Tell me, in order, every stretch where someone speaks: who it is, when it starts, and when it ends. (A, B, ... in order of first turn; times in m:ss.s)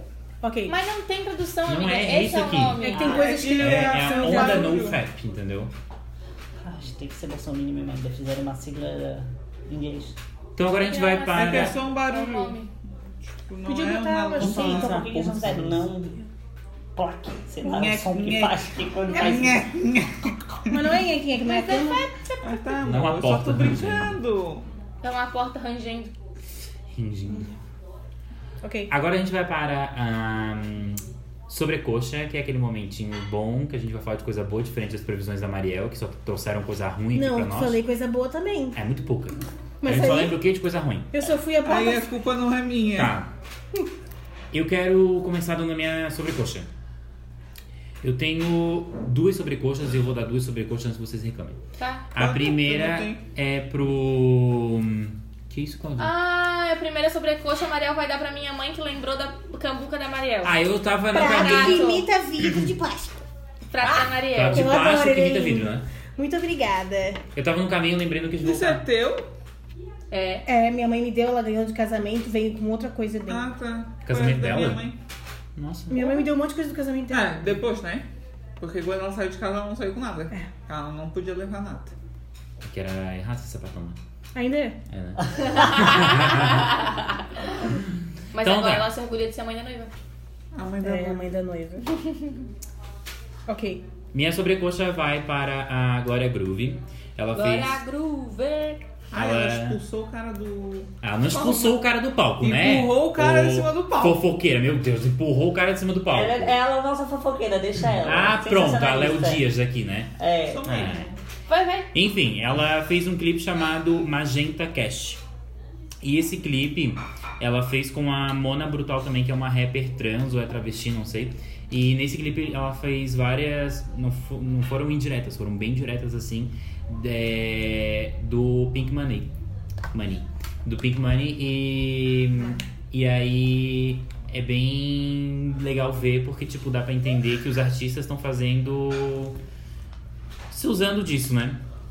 0:00.4-0:00.7 A
0:00.7-0:03.4 B
0:01.7-0:03.0 C
0:02.8-0:04.8 A
0:03.0-0:05.0 D
0:03.5-0:05.7 C
0:06.6-0:10.2 E
0:10.6-0:11.8 C
0:10.8-0:12.7 B
0:11.3-0:12.6 D
0:13.4-0:15.0 D
0:13.6-0:15.2 A
0:14.4-0:16.2 E
0:14.9-0:15.8 C
0:17.0-0:19.7 E
0:17.6-0:20.8 D
0:19.1-0:19.6 A
0:20.7-0:22.1 A
0:21.4-0:22.6 B
0:22.4-0:24.7 D
0:22.8-0:24.2 C
0:25.0-0:26.1 B
0:26.9-0:27.5 C
0:28.6-0:28.9 A
0:28.9-0:37.8 C
0:37.1-0:38.8 A
0:38.8-0:41.1 C
0:39.8-0:40.4 A
0:41.1-0:42.1 A
0:41.6-0:43.1 D
0:43.0-0:43.3 C
0:44.5-0:46.7 C
0:48.0-0:51.6 C
0:51.8-0:52.1 B
0:52.1-0:56.1 C
0:52.2-0:53.2 D
0:56.0-1:00.6 B
1:00.4-1:01.9 C
1:01.1-1:03.2 A
1:01.2-1:02.1 B
1:03.7-1:04.7 B
1:04.0-1:05.8 C
1:04.5-1:07.2 A
1:07.4-1:08.8 C
1:08.4-1:09.3 D
1:10.1-1:10.5 B
1:10.5-1:13.4 A
1:13.3-1:15.0 D
1:14.0-1:14.9 C
1:15.6-1:16.0 C
1:15.9-1:17.6 A
1:17.1-1:18.1 D
1:18.6-1:21.9 D
1:22.6-1:24.0 C
1:24.4-1:24.8 A
1:24.9-1:26.8 C
1:25.5-1:27.4 B
1:28.3-1:29.9 B
1:28.4-1:28.9 C
1:30.5-1:31.3 D
1:30.8-1:31.9 A
1:33.5-1:33.8 A
1:34.1-1:37.8 C
1:37.4-1:38.9 B
1:39.1-1:41.7 D
1:39.1-1:39.8 C
1:41.0-1:46.6 C
1:42.4-1:44.2 D
1:46.1-1:49.4 E
1:48.0-1:51.1 C
1:50.2-1:50.8 E
1:50.5-1:51.2 D
1:51.5-1:51.9 B
1:51.9-1:55.2 C
1:56.0-2:09.3 C
2:09.9-2:19.4 C
2:20.5-2:21.6 C